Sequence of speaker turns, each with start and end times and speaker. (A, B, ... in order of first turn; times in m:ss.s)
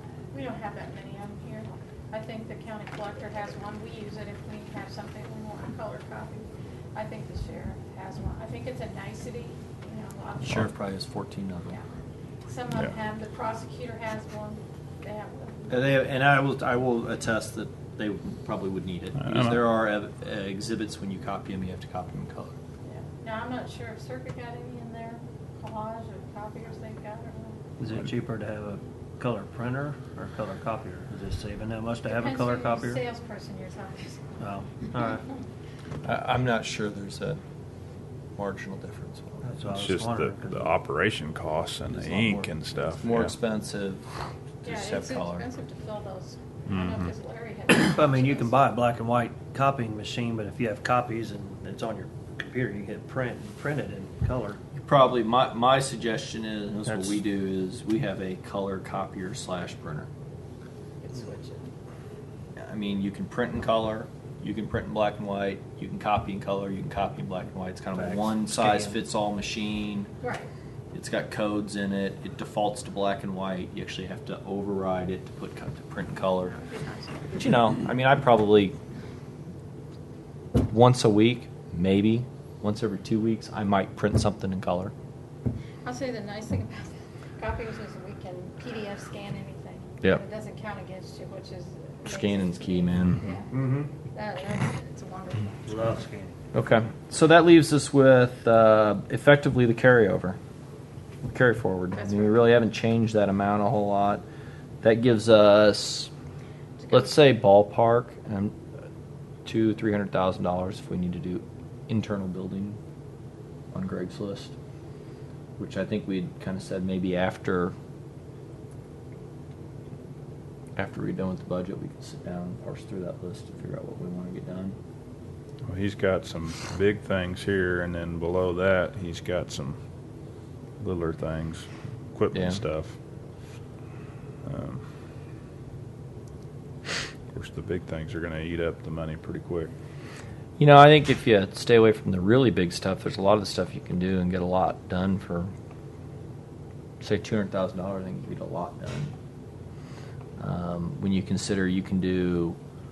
0:00.3-0:10.7 A
0:10.4-0:11.8 B
0:12.5-0:15.8 A
0:15.7-0:22.6 B
0:19.1-0:19.6 C
0:22.8-0:27.6 A
0:27.8-0:33.0 D
0:32.0-0:34.2 A
0:34.4-0:35.2 D
0:36.0-0:37.4 B
0:38.4-0:39.5 B
0:39.4-0:40.7 D
0:39.7-0:43.3 C
0:41.9-0:42.4 D
0:43.0-0:44.0 B
0:44.6-0:45.4 B
0:44.6-0:48.6 A
0:46.7-0:47.1 C
0:47.7-0:54.6 D
0:54.7-1:00.1 B
0:56.8-0:57.2 D
1:01.0-1:01.7 A
1:02.6-1:10.1 B
1:07.9-1:09.0 D
1:10.2-1:10.5 A
1:10.9-1:16.6 B
1:16.4-1:17.4 A
1:17.3-1:18.8 B
1:20.6-1:24.9 B
1:25.8-1:33.5 A
1:32.0-1:33.3 B
1:33.5-1:33.9 D
1:34.1-1:36.0 A
1:35.7-1:36.3 D
1:36.5-1:40.4 B
1:41.2-1:44.2 B
1:42.0-1:42.5 A
1:44.8-1:46.1 B
1:46.8-1:47.1 A
1:46.9-1:48.6 B
1:49.4-1:52.8 B
1:53.7-1:54.5 B
1:55.6-1:57.7 B
2:00.8-2:04.8 B
2:05.6-2:09.8 C
2:10.8-2:13.0 C
2:12.3-2:12.6 B
2:14.4-2:14.8 C
2:17.3-2:19.7 C
2:20.6-2:25.5 B
2:27.0-2:29.1 B
2:30.4-2:32.6 B